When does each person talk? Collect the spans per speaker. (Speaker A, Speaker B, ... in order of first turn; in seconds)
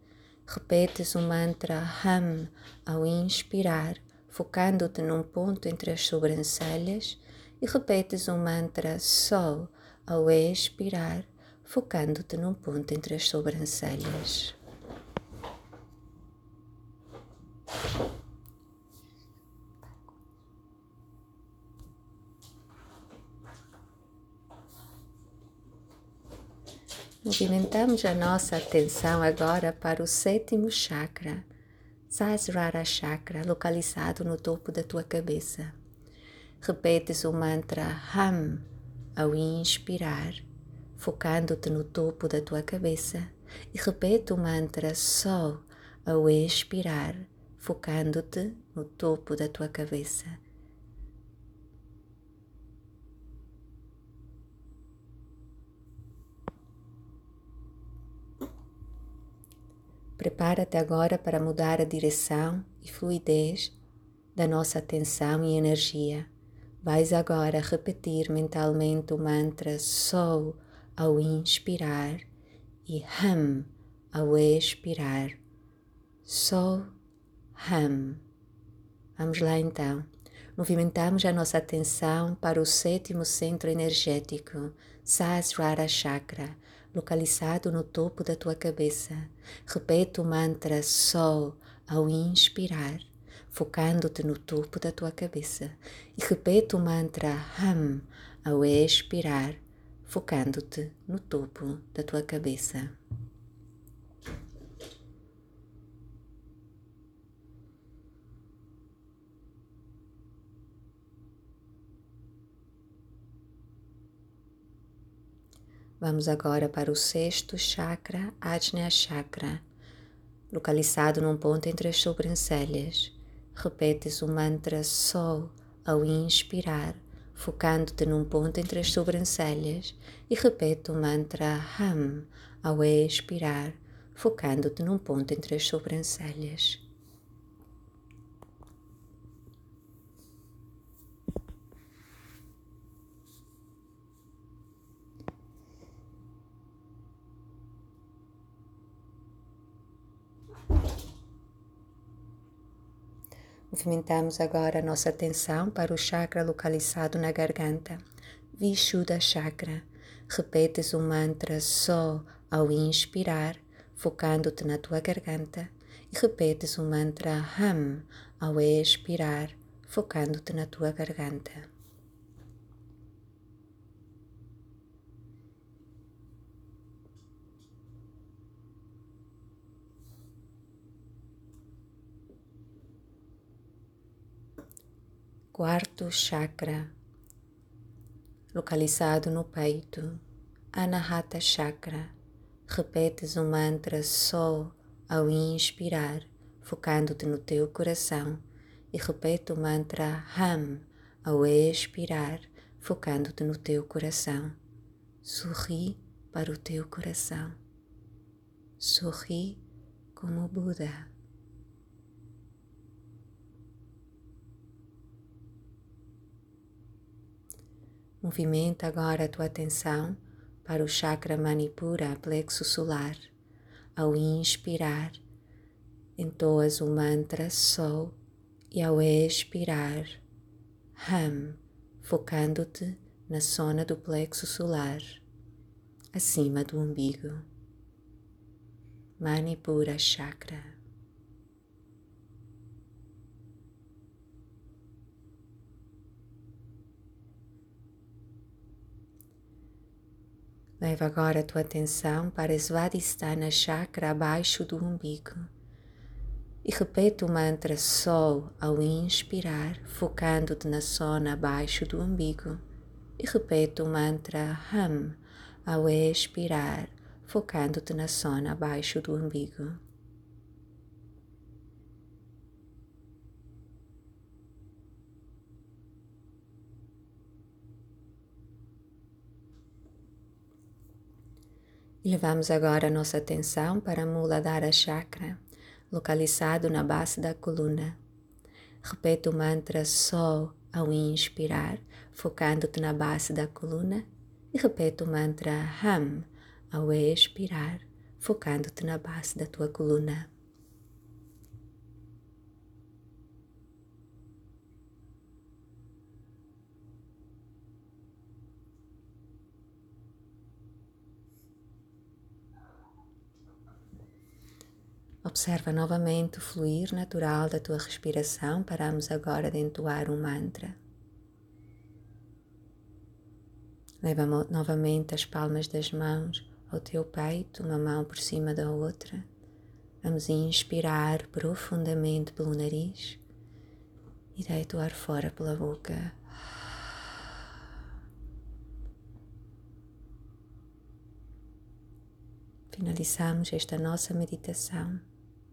Speaker A: 0.5-14.6, 27.2-31.5, 32.1-35.8, 36.6-40.5, 41.0-50.4, 60.2-63.8, 64.3-66.3, 66.8-72.3, 72.8-75.4, 76.2-76.9, 77.5-78.2, 79.2-103.0, 116.0-119.6, 120.5-136.8, 153.7-158.0, 158.5-171.7, 185.5-186.9, 188.5-190.2, 190.7-192.1, 192.7-204.6, 205.2-207.6, 208.8-209.6, 210.2-211.1, 218.2-223.3, 224.0-225.2, 226.2-228.2, 228.7-230.2, 231.0-235.2, 236.1-237.5, 239.2-240.8, 250.8-255.5, 256.6-262.6, 263.2-269.8, 282.0-285.4, 285.9-288.0, 288.8-300.3, 315.2-320.8, 324.0-329.3, 330.0-333.2, 334.4-336.2, 342.7-345.0